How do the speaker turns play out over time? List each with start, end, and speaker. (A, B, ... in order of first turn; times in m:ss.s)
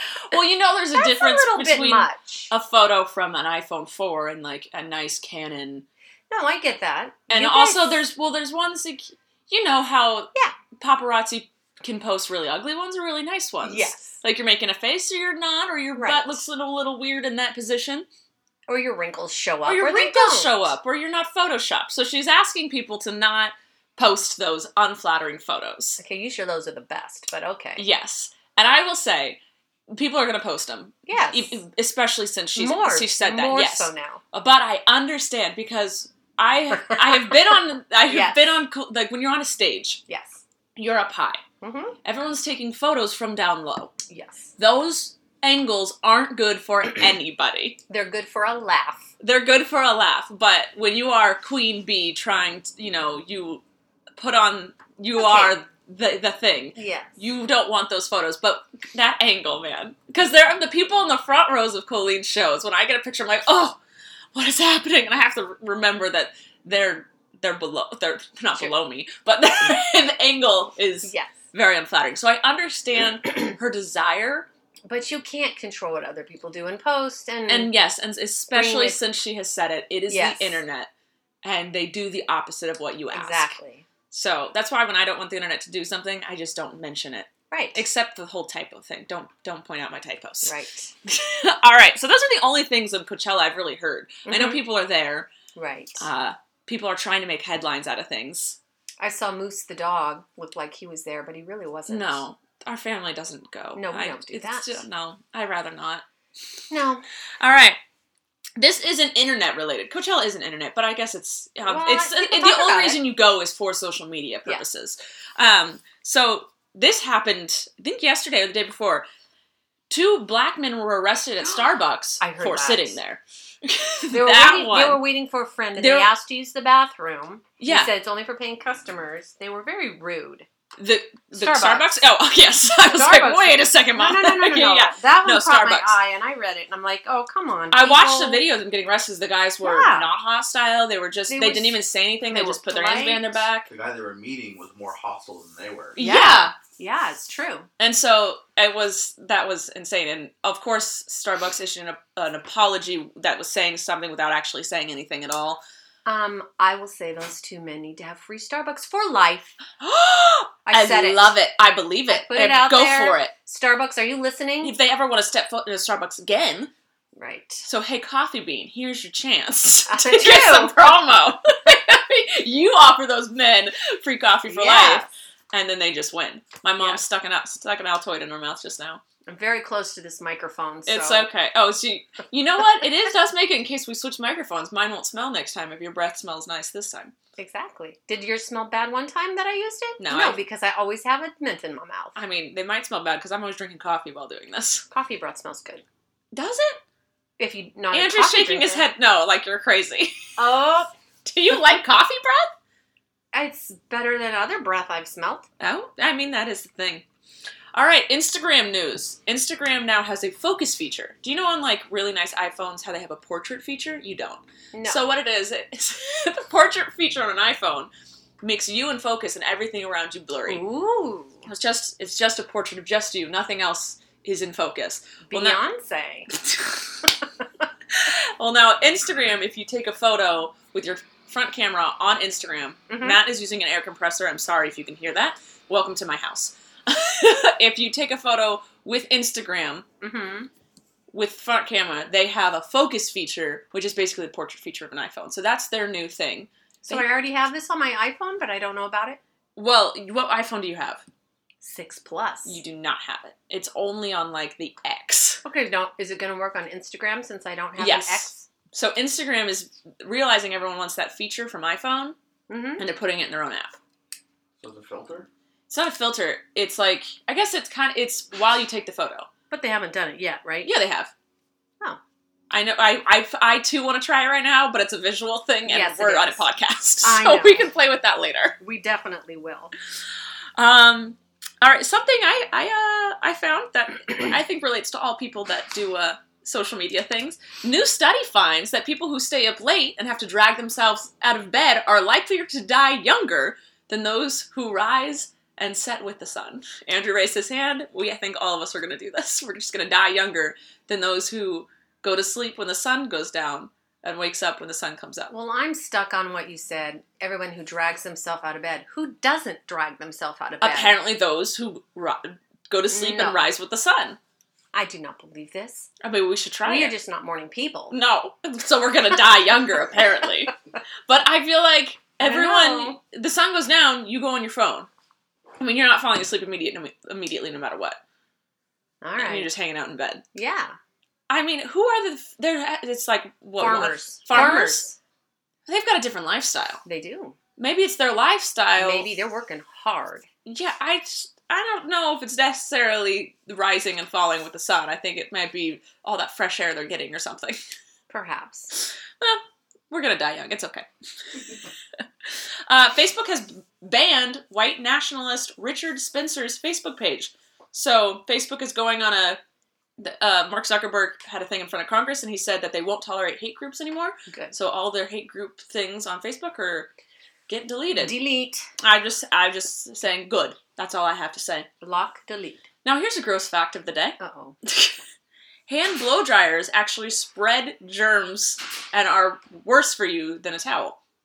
0:00.3-0:05.8 A
0:01.0-0:02.5 B
0:06.3-0:08.0 B
0:07.3-0:18.1 A
0:13.6-0:14.2 B
0:16.0-0:16.4 B
0:18.7-0:20.7 B
0:19.6-0:26.0 A
0:26.0-0:27.8 B
0:27.8-0:29.4 A
0:29.9-0:40.0 A
0:31.1-0:31.6 B
0:32.6-0:34.2 B
0:36.7-0:38.6 B
0:40.1-0:40.4 B
0:40.8-0:41.4 A
0:41.6-0:42.0 B
0:42.0-0:43.9 A
0:44.1-0:44.5 B
0:44.6-0:47.8 A
0:47.9-0:49.1 B
0:49.2-0:53.6 A
0:54.2-1:03.8 A
0:55.2-0:55.6 B
0:56.8-0:57.1 B
1:04.3-1:14.5 A
1:11.0-1:11.3 B
1:14.9-1:17.7 B
1:17.5-1:20.9 A
1:18.5-1:19.0 B
1:20.1-1:20.6 B
1:21.4-1:23.6 A
1:23.1-1:23.8 B
1:24.1-1:30.5 A
1:27.5-1:27.8 B
1:30.4-1:30.9 B
1:31.0-1:35.3 A
1:34.2-1:34.6 B
1:35.6-1:36.0 B
1:36.0-1:38.6 A
1:39.0-1:42.2 B
1:41.9-1:46.0 A
1:43.8-1:44.8 B
1:46.7-1:47.0 B
1:47.4-1:47.8 A
1:48.6-1:59.0 A
1:51.6-1:53.0 B
1:59.9-2:05.0 A
2:01.4-2:03.0 B
2:04.1-2:10.5 B
2:05.8-2:06.1 A
2:07.6-2:07.9 A
2:10.8-2:16.0 A
2:11.3-2:11.9 B
2:12.8-2:18.4 B
2:17.7-2:23.7 A
2:19.6-2:20.1 B
2:21.3-2:23.4 B
2:23.7-2:26.0 C
2:26.0-2:26.5 A
2:26.0-2:27.7 B
2:27.8-2:35.6 A
2:36.0-2:39.6 B
2:39.8-2:43.3 A
2:40.6-2:41.3 B
2:42.1-2:44.7 B
2:44.6-2:46.7 A
2:47.2-2:47.6 B
2:47.6-2:59.0 A
2:49.9-2:50.9 B
2:54.5-2:55.1 B
2:59.3-3:01.3 B
3:00.9-3:07.1 A
3:07.4-3:12.2 B
3:10.0-3:10.4 A
3:12.2-3:14.8 A
3:14.9-3:15.8 B
3:16.3-3:16.8 A
3:17.4-3:18.8 B
3:17.9-3:20.3 A
3:20.4-3:20.9 B
3:21.2-3:22.5 A
3:23.3-3:25.4 B
3:25.6-3:27.0 A
3:27.7-3:37.9 A
3:34.7-3:35.0 B
3:38.4-3:40.6 A
3:40.5-3:41.4 B
3:41.4-3:45.6 A
3:45.3-3:46.3 B
3:46.3-3:47.1 A
3:47.9-3:59.8 A
3:52.9-3:53.2 B
4:00.0-4:00.5 B
4:01.1-4:07.0 A
4:06.9-4:09.2 B
4:09.6-4:11.0 A
4:11.6-4:12.6 B
4:12.4-4:15.4 A
4:15.4-4:18.4 B
4:17.8-4:22.2 A
4:22.5-4:22.8 B
4:22.8-4:23.8 A
4:24.6-4:25.3 C
4:25.7-4:29.3 A
4:29.5-4:30.7 B
4:30.6-4:31.1 A
4:32.5-4:38.6 A
4:35.6-4:36.4 B
4:37.0-4:37.7 B
4:38.6-4:39.7 B
4:40.6-5:05.3 A
5:05.3-5:11.0 B
5:10.6-5:14.2 A
5:12.9-5:13.5 B
5:14.7-5:15.9 B
5:16.0-5:16.9 A
5:16.6-5:17.9 B
5:17.9-5:20.5 A
5:21.1-5:24.9 A
5:22.2-5:23.0 B
5:25.6-5:28.0 A
5:29.0-5:29.5 B
5:29.2-5:30.2 A
5:30.3-5:30.8 B
5:31.3-5:34.9 A
5:33.6-5:35.0 B
5:35.7-5:36.8 A
5:36.8-5:37.4 B
5:37.6-5:39.1 A
5:38.8-5:40.2 B
5:40.4-5:47.6 A
5:48.1-5:48.7 B
5:49.2-5:50.9 A
5:52.7-5:59.4 A
6:00.0-6:06.9 A
6:04.3-6:04.5 B
6:07.5-6:08.1 A
6:07.9-6:08.6 B
6:08.8-6:11.7 A
6:11.8-6:12.6 B
6:12.8-6:14.9 A
6:14.2-6:14.6 B
6:15.7-6:21.0 A